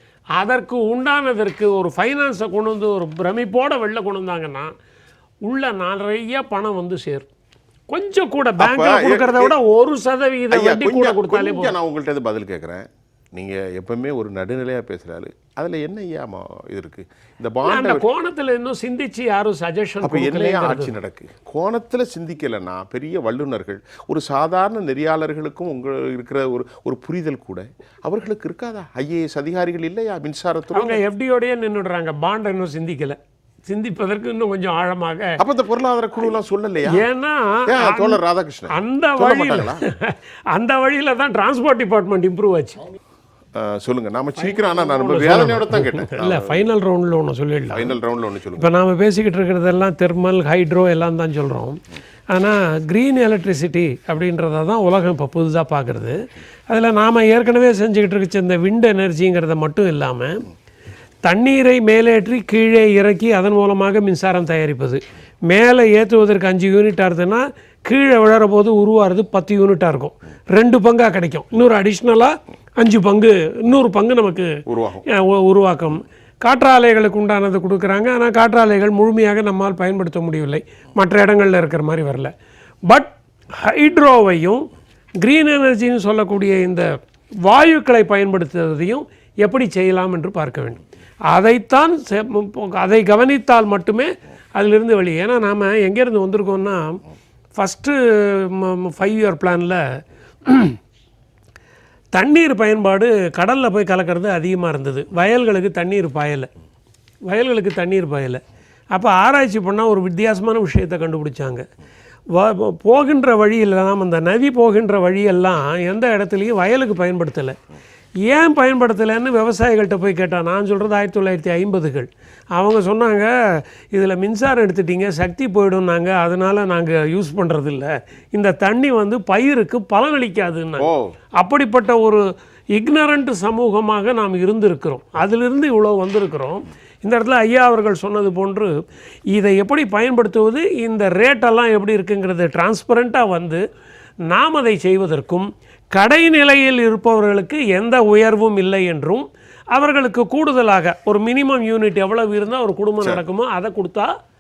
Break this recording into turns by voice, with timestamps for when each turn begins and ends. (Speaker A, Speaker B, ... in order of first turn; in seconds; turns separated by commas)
Speaker A: 0.4-4.7, Speaker A: 5.5-7.3, Speaker A: 7.9-11.8, Speaker B: 8.6-9.6, Speaker B: 10.5-18.1, Speaker A: 17.7-20.9, Speaker B: 20.0-31.0, Speaker A: 30.7-35.4, Speaker B: 35.4-37.0, Speaker A: 36.9-38.2, Speaker B: 37.7-39.8, Speaker A: 38.7-42.8, Speaker B: 43.5-46.6, Speaker A: 44.5-48.0, Speaker B: 47.7-48.7, Speaker A: 48.6-51.8, Speaker A: 52.3-60.5, Speaker A: 61.3-74.5, Speaker B: 74.7-75.0, Speaker A: 75.1-82.3, Speaker A: 82.9-84.7, Speaker A: 85.2-86.9, Speaker A: 87.5-97.0, Speaker A: 97.6-99.8, Speaker A: 100.5-100.8, Speaker A: 102.2-106.5, Speaker A: 107.3-108.4, Speaker A: 108.9-111.7, Speaker A: 112.3-117.6, Speaker A: 118.3-138.8, Speaker B: 130.8-131.1, Speaker A: 139.3-143.6, Speaker A: 144.3-154.1